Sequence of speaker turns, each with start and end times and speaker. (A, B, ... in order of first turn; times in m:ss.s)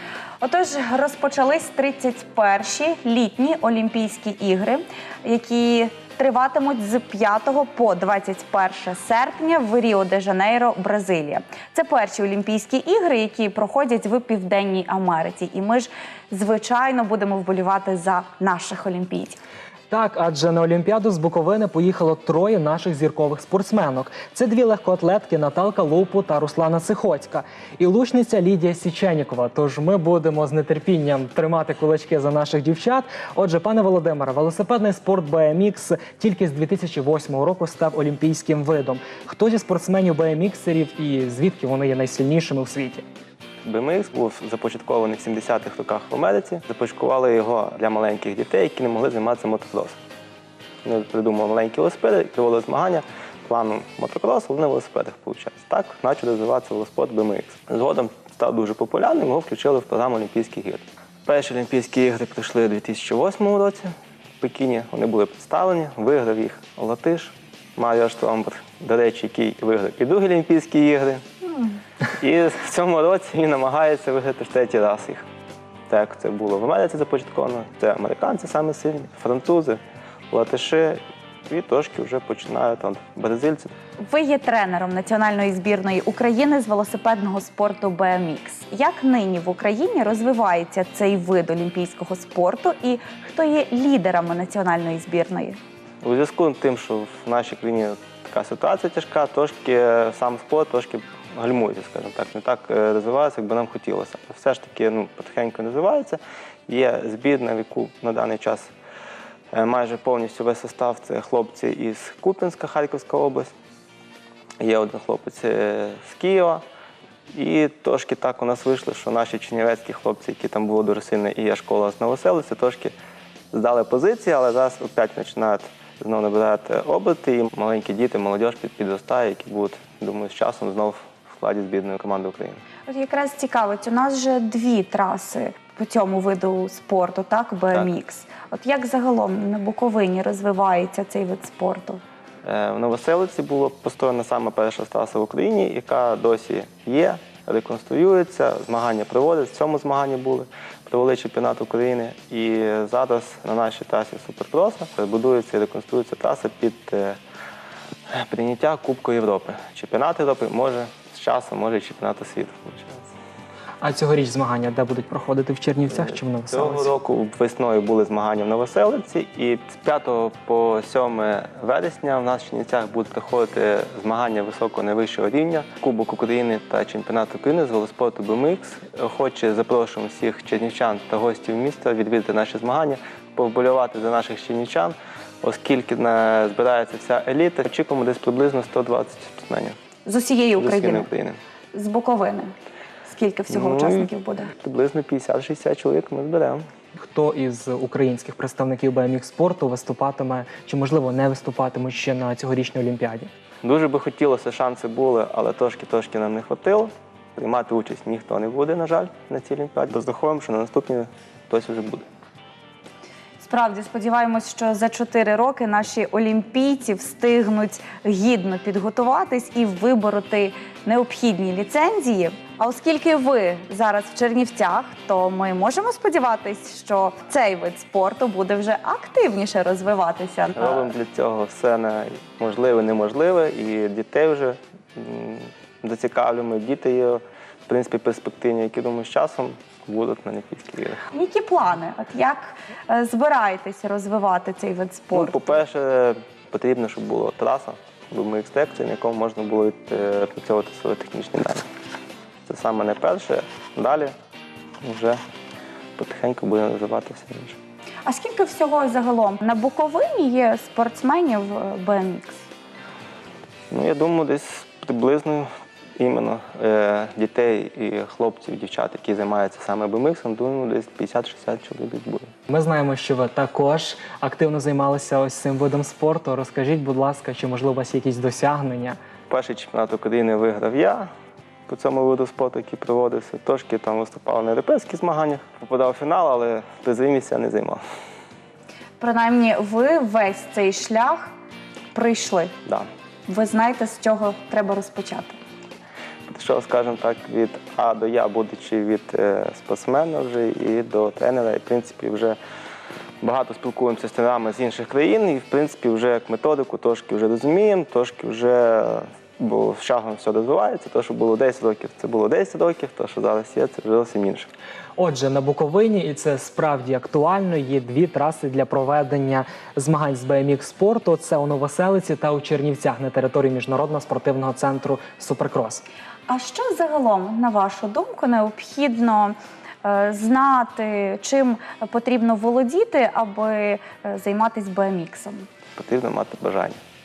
0:00.4-0:19.4 A
0:19.9-0:43.0 B
0:43.6-0:50.0 C
0:50.8-1:11.2 C
1:12.2-1:15.2 C
1:15.9-1:19.8 C
1:20.3-1:23.7 C
1:24.1-1:35.6 A
1:36.0-1:48.7 C
1:49.5-1:53.5 C
1:54.6-1:56.6 C
1:57.3-2:02.9 C
2:03.5-2:12.6 C
2:12.9-2:22.0 A
2:22.4-2:37.2 C
2:38.1-2:43.1 C
2:43.8-2:46.9 B
2:46.0-3:09.8 C
3:10.0-3:11.1 A
3:10.6-3:11.4 C
3:11.7-3:14.5 A
3:13.5-3:16.6 C
3:17.0-3:23.3 B
3:23.6-3:32.1 C
3:33.4-3:50.9 A
3:50.6-4:01.0 C
4:01.1-4:05.6 A
4:05.1-4:11.6 C
4:12.4-4:14.1 C
4:14.8-4:15.2 C
4:16.0-4:17.6 C
4:18.0-4:22.4 A
4:23.7-4:32.3 C
4:32.5-4:39.0 B
4:39.3-4:41.1 C
4:41.7-4:47.8 C
4:49.0-4:51.3 A
4:51.9-4:52.5 A
4:53.3-4:55.4 A
4:56.3-5:02.4 C
5:03.2-5:14.5 C
5:15.0-5:25.8 B
5:26.3-5:35.4 A
5:35.8-5:36.8 C